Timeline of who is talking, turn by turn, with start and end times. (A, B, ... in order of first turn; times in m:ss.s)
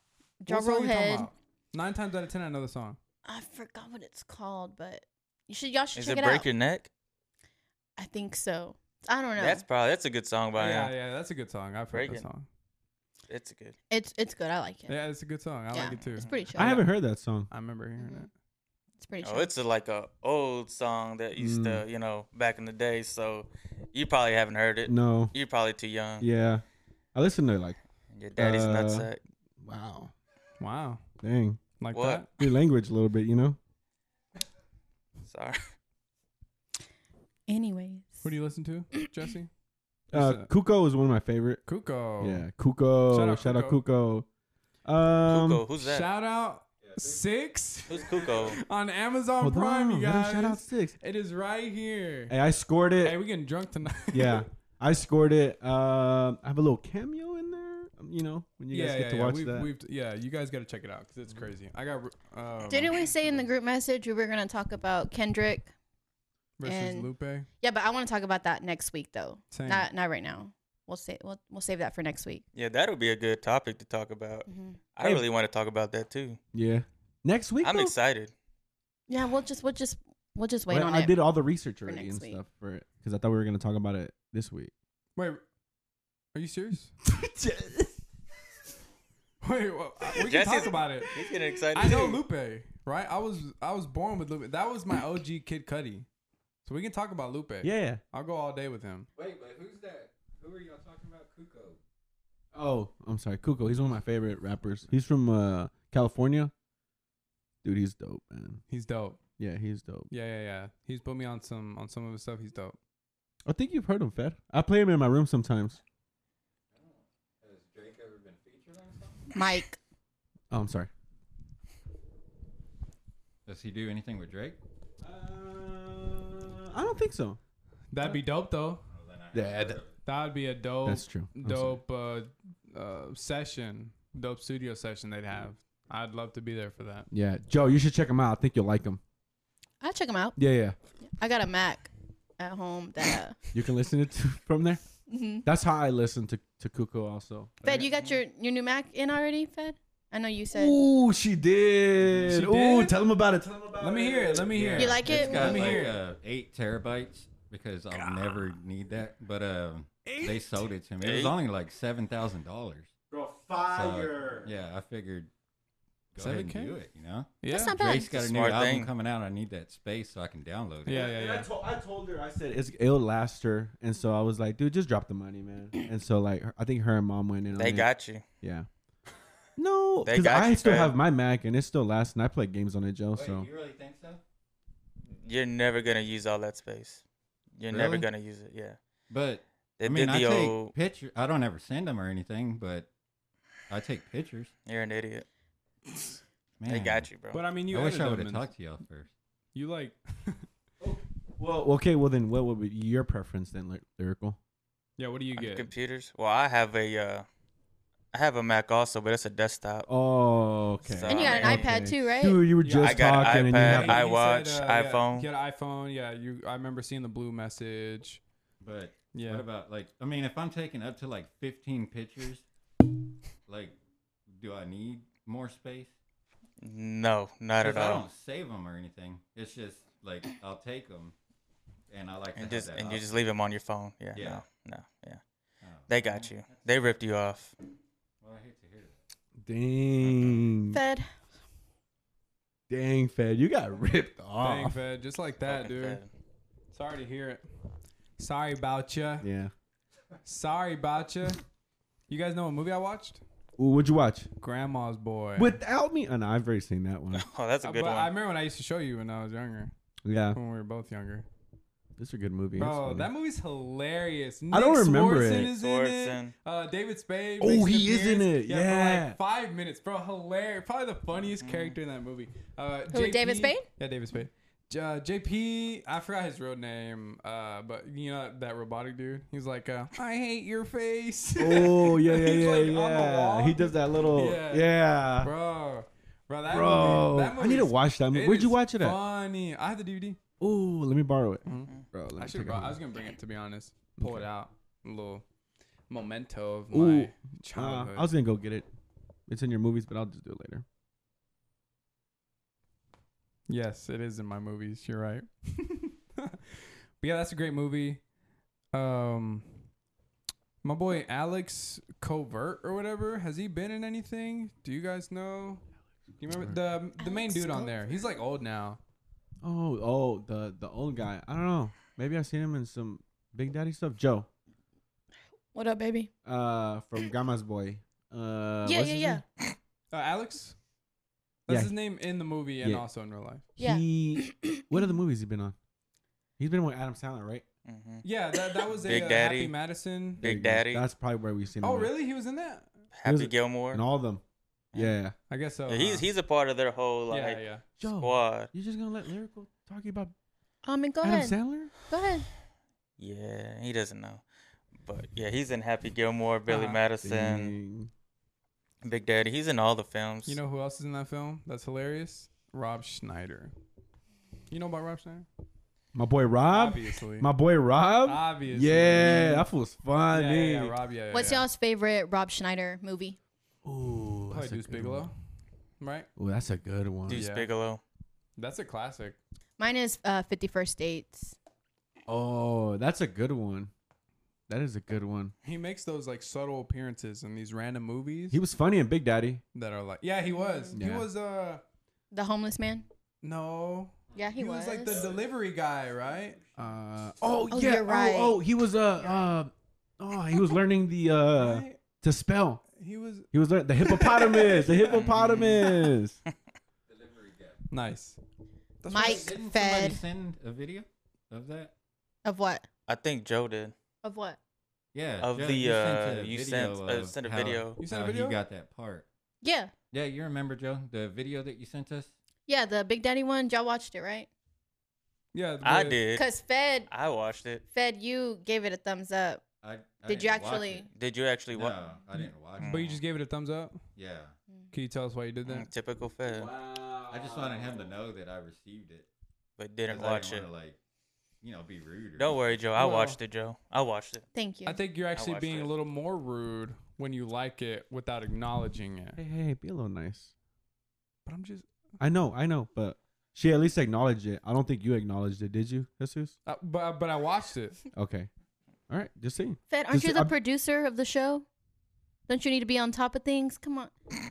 0:00.4-0:01.3 A
0:00.5-0:03.0 B
0:03.2-0:06.5 A
0:06.0-0:06.9 C
0:08.0-0:09.6 A
0:09.4-0:10.9 C
0:10.6-0:12.5 B
0:11.9-0:12.3 C
0:13.3-0:13.8 C
0:13.9-0:15.0 A
0:14.9-0:16.9 B
0:15.7-0:16.8 A
0:15.9-0:16.2 C
0:16.6-0:17.5 D
0:17.5-0:18.3 B
0:18.0-0:18.3 A
0:19.0-0:19.5 A
0:19.2-0:26.3 C
0:21.4-0:21.8 D
0:24.9-0:25.3 D
0:26.2-0:27.8 D
0:28.1-0:29.2 C
0:28.4-0:29.1 D
0:29.6-0:30.1 D
0:30.6-0:31.0 B
0:31.2-0:31.6 D
0:31.8-0:32.3 B
0:31.9-0:32.3 C
0:32.4-0:33.6 D
0:35.2-0:35.6 C
0:37.5-0:38.3 A
0:38.2-0:39.5 B
0:40.1-0:40.5 B
0:40.1-0:41.6 D
0:41.7-0:42.5 B
0:42.2-0:44.3 D
0:43.1-0:43.8 B
0:44.8-0:45.6 D
0:45.3-0:46.1 C
0:45.8-0:52.4 B
0:46.8-0:47.2 E
0:47.9-0:48.6 C
0:49.4-0:51.0 D
0:52.3-0:53.2 D
0:53.0-0:54.4 B
0:54.1-0:59.7 D
0:58.7-1:03.1 B
1:02.7-1:05.7 A
1:06.6-1:07.5 B
1:06.6-1:12.4 A
1:09.5-1:09.9 B
1:12.6-1:16.4 C
1:14.5-1:14.8 A
1:16.5-1:17.9 D
1:17.6-1:18.3 C
1:19.1-1:21.2 A
1:20.7-1:24.7 D
1:21.9-1:22.4 A
1:25.2-1:25.4 B
1:26.3-1:26.9 B
1:27.0-1:28.0 D
1:29.4-1:31.1 B
1:30.2-1:32.2 C
1:31.1-1:32.0 D
1:31.7-1:36.1 B
1:36.6-1:39.1 B
1:37.6-1:38.0 D
1:39.2-1:41.8 E
1:42.5-1:46.5 D
1:47.6-1:48.6 D
1:48.7-1:49.2 B
1:49.4-1:50.1 D
1:50.1-1:52.8 B
1:53.5-1:55.8 D
1:56.7-1:59.3 E
1:59.3-1:59.8 A
2:00.5-2:00.9 D
2:03.5-2:04.6 E
2:05.0-2:07.4 D
2:07.9-2:08.8 B
2:08.9-2:10.0 E
2:09.3-2:09.8 D
2:10.0-2:17.1 B
2:10.8-2:11.8 D
2:17.1-2:19.0 D
2:19.8-2:20.4 A
2:20.4-2:20.8 D
2:21.0-2:23.4 A
2:23.5-2:24.8 D
2:25.1-2:25.5 A
2:25.4-2:27.9 D
2:27.6-2:30.8 A
2:30.5-2:35.1 D
2:32.2-2:33.0 B
2:33.8-2:36.0 B
2:34.6-2:42.9 E
2:34.8-2:35.8 A
2:38.0-2:38.4 B
2:40.1-2:40.6 B
2:41.0-2:41.3 C
2:43.1-2:44.5 D
2:43.7-2:45.3 E
2:46.1-2:51.1 E
2:46.2-2:46.8 B
2:47.4-2:47.8 B
2:47.5-2:48.2 A
2:48.1-2:48.9 C
2:50.9-2:51.5 B
2:50.9-2:57.9 D
2:57.6-2:58.2 C
2:58.4-2:58.7 D
2:59.6-3:03.5 D
3:00.0-3:01.0 C
3:03.1-3:04.2 E
3:05.1-3:07.0 C
3:07.6-3:08.8 C
3:07.7-3:08.1 E
3:09.1-3:12.9 E
3:09.8-3:10.7 C
3:13.7-3:14.5 E
3:14.7-3:15.3 C
3:16.6-3:17.1 E
3:16.6-3:17.4 C
3:17.3-3:18.5 B
3:17.7-3:19.1 E
3:19.6-3:20.5 B
3:20.8-3:24.4 D
3:25.0-3:25.7 B
3:25.4-3:27.3 C
3:28.1-3:29.9 C
3:29.9-3:34.0 D
3:31.0-3:31.7 C
3:31.1-3:32.4 A
3:32.6-3:38.2 B
3:32.8-3:35.3 C
3:38.6-3:42.4 E
3:39.1-3:39.4 B
3:43.5-3:43.8 E
3:44.3-3:45.9 E
3:46.6-3:48.1 C
3:47.6-3:51.2 E
3:51.9-3:53.0 E
3:52.4-3:55.2 C
3:54.2-3:54.4 E
3:55.6-3:56.7 E
3:55.9-3:57.5 C
3:58.2-3:59.0 E
3:59.4-4:00.8 D
4:00.7-4:01.1 A
4:02.7-4:04.8 D
4:04.4-4:06.0 B
4:05.5-4:06.1 C
4:06.7-4:07.5 B
4:08.2-4:09.3 B
4:09.2-4:09.5 D
4:10.2-4:11.4 B
4:12.1-4:13.2 B
4:13.6-4:14.3 D
4:14.4-4:15.6 B
4:15.4-4:17.3 D
4:17.1-4:18.1 C
4:17.6-4:19.7 B
4:20.0-4:20.4 D
4:20.3-4:21.3 B
4:22.0-4:23.1 D
4:22.6-4:50.2 B
4:24.5-4:25.5 D
4:25.2-4:26.3 C
4:27.4-4:29.2 D
4:31.4-4:31.8 C
4:32.9-4:33.7 A
4:41.4-4:45.3 D
4:46.5-4:49.0 D
4:50.4-4:52.8 D
4:51.4-4:55.2 B
4:54.0-4:54.3 D
4:55.9-4:58.1 B
4:56.7-4:58.7 D
4:59.3-5:00.6 D
5:03.5-5:08.0 B
5:08.7-5:09.6 B
5:10.6-5:15.6 B
5:16.2-5:18.8 B
5:16.3-5:16.6 D
5:17.0-5:18.1 A
5:19.4-5:24.3 D
5:25.5-5:26.1 A
5:26.2-5:29.2 D
5:28.6-5:29.2 A
5:29.9-5:30.6 B
5:31.5-5:33.5 B
5:31.5-5:31.8 D
5:33.6-5:35.6 D
5:33.6-5:34.6 A
5:36.4-5:37.5 D
5:37.6-5:38.0 C
5:38.0-5:40.2 B
5:38.8-5:39.6 C
5:40.2-5:40.8 C
5:40.2-5:41.9 D
5:41.6-5:42.7 B
5:42.9-5:43.8 C
5:43.1-5:44.2 D
5:44.7-5:45.2 D
5:45.3-5:46.1 B
5:45.7-5:48.5 C
5:47.1-5:47.6 B
5:47.8-5:50.1 D
5:50.6-5:52.3 A
5:51.0-5:51.7 D
5:53.0-5:54.2 C
5:54.8-5:57.6 C
5:56.5-5:56.8 B
5:57.0-5:57.9 D
5:58.8-6:00.4 C
6:00.3-6:03.5 B
6:04.5-6:05.3 B
6:05.9-6:10.8 D
6:06.5-6:07.3 B
6:08.0-6:09.5 B
6:10.1-6:11.5 B
6:11.1-6:13.2 A
6:13.6-6:15.1 D
6:14.3-6:15.2 B
6:15.8-6:16.1 B
6:16.2-6:17.3 D
6:17.1-6:17.8 C
6:17.1-6:17.5 B
6:18.4-6:19.2 B
6:19.6-6:21.4 A
6:22.1-6:23.7 D
6:24.5-6:25.3 D
6:25.4-6:28.4 B
6:28.3-6:29.4 D
6:29.6-6:31.6 B
6:30.4-6:30.8 A
6:30.7-6:31.1 D
6:32.1-6:32.9 A
6:33.2-6:36.4 B
6:34.2-6:35.0 A
6:34.9-6:35.3 E
6:36.0-6:37.1 E
6:36.6-6:42.6 D
6:37.5-6:38.4 A
6:41.4-6:41.8 B
6:42.8-6:43.3 B
6:43.3-6:46.2 D
6:43.8-6:45.7 B
6:46.9-6:47.6 E
6:47.7-6:48.2 B
6:48.8-6:49.3 B
6:48.9-6:50.0 A
6:48.9-6:51.7 E
6:52.2-6:52.7 A
6:52.9-6:53.8 C
6:54.0-6:54.4 A
6:54.9-6:59.1 E
6:55.2-6:57.8 C
6:57.8-6:58.4 B
6:59.4-6:59.7 A
6:59.9-7:02.1 E
7:02.5-7:04.3 A
7:05.3-7:06.0 B
7:05.6-7:06.3 C
7:06.2-7:06.9 A
7:06.9-7:07.6 C
7:07.7-7:09.4 A
7:09.6-7:10.9 E
7:10.1-7:10.9 A
7:11.0-7:11.8 C
7:11.5-7:13.0 E
7:12.2-7:13.8 B
7:12.6-7:12.9 C
7:14.0-7:14.3 E
7:14.7-7:15.7 B
7:15.4-7:16.5 C
7:16.3-7:17.9 D
7:17.0-7:19.1 E
7:19.6-7:20.5 C
7:19.9-7:20.8 E
7:21.4-7:22.6 E
7:22.2-7:24.2 C
7:22.8-7:23.2 B
7:24.4-7:24.8 A
7:24.6-7:29.2 B
7:25.1-7:25.7 C
7:29.2-7:30.3 D
7:31.3-7:31.7 B
7:32.0-7:36.4 D
7:36.5-7:37.8 B
7:37.9-7:38.3 D
7:38.9-7:40.3 D
7:39.7-7:41.5 A
7:42.3-7:43.9 A